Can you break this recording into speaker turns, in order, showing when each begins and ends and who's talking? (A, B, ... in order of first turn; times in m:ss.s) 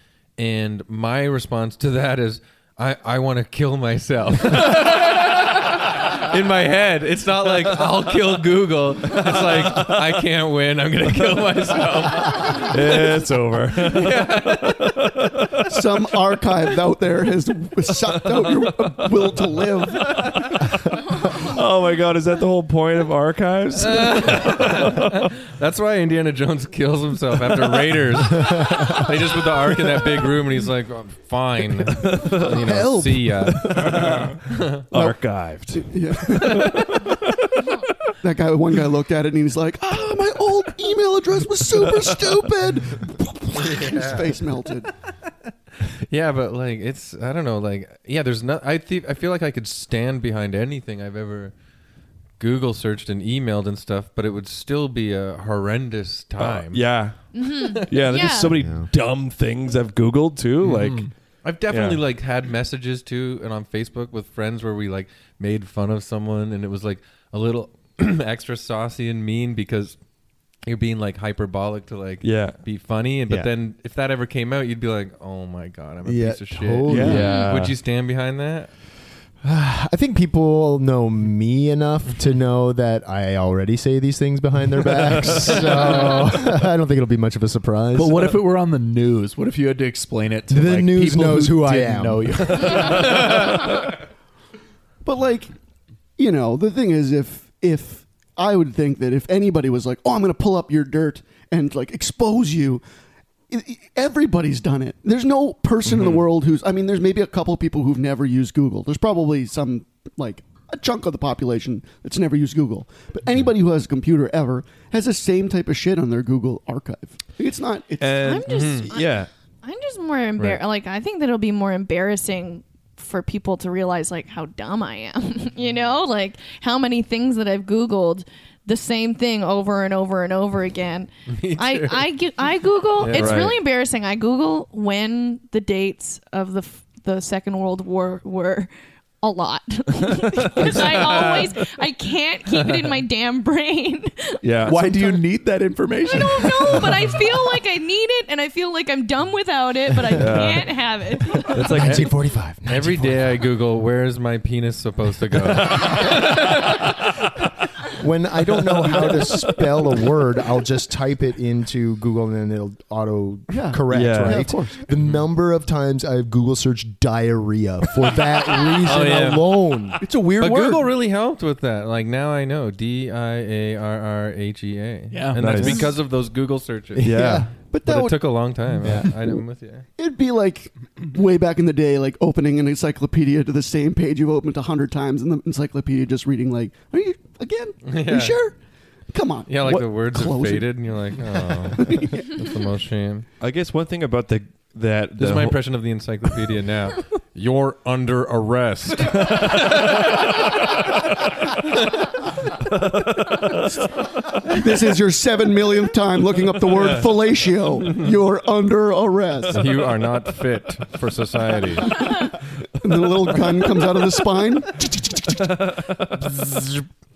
0:00.4-0:14.9 A
0:09.2-0:09.8 B
0:12.3-0:16.0 B
0:15.7-0:20.4 C
0:18.0-0:19.5 B
0:20.0-0:25.3 B
0:23.8-0:34.9 A
0:28.3-0:29.1 B
0:31.9-0:34.4 B
0:32.4-0:33.4 C
0:34.9-0:37.8 B
0:34.9-0:35.2 C
0:35.7-0:37.0 C
0:36.4-0:36.8 A
0:38.2-0:44.9 C
0:43.5-0:44.4 A
0:46.0-0:51.5 A
0:52.4-0:56.8 A
0:56.4-1:01.1 B
0:57.3-0:58.6 D
0:58.6-0:58.9 E
1:00.7-1:01.1 F
1:01.4-1:10.0 A
1:01.7-1:02.0 B
1:10.6-1:18.7 A
1:12.2-1:12.6 B
1:16.0-1:17.3 E
1:16.9-1:17.4 F
1:17.0-1:17.7 B
1:17.1-1:17.6 D
1:19.4-1:28.3 E
1:25.1-1:25.6 B
1:25.5-1:26.3 A
1:27.9-1:33.3 F
1:30.5-1:32.6 E
1:32.6-1:32.9 B
1:35.0-1:35.5 C
1:36.2-1:42.8 C
1:43.5-1:58.4 C
1:58.0-1:59.3 B
1:58.2-2:18.7 D
1:58.5-1:58.9 A
2:11.3-2:12.1 A
2:13.0-2:13.5 A
2:13.1-2:13.6 B
2:19.2-2:24.4 D
2:20.4-2:21.5 B
2:20.7-2:21.4 A
2:22.5-2:23.0 A
2:24.4-2:25.2 B
2:24.6-2:27.1 F
2:26.1-2:31.8 D
2:30.1-2:30.8 B
2:31.4-2:33.4 E
2:31.5-2:32.1 B
2:31.8-2:32.1 A
2:32.6-2:36.8 A
2:38.0-2:50.0 E
2:38.5-2:39.4 B
2:43.5-2:44.8 C
2:43.9-2:44.5 B
2:45.0-2:45.2 A
2:48.8-2:49.5 A
2:50.0-2:50.9 C
2:50.4-2:57.1 A
2:55.1-2:55.7 F
2:55.4-2:55.9 B
2:56.9-2:57.5 E
2:57.0-2:57.5 B
2:57.6-2:58.2 C
2:57.8-2:59.9 A
2:58.7-2:59.1 C
2:58.8-2:59.1 E
3:00.0-3:08.6 C
3:07.8-3:08.4 A
3:09.1-3:12.5 C
3:09.5-3:13.3 A
3:13.4-3:15.6 B
3:15.2-3:20.7 A
3:19.0-3:20.1 B
3:22.5-3:23.8 B
3:24.5-3:29.6 C
3:26.7-3:27.0 A
3:27.8-3:28.1 A
3:29.5-3:32.1 A
3:31.9-3:32.3 C
3:32.8-3:35.2 C
3:35.2-3:36.9 B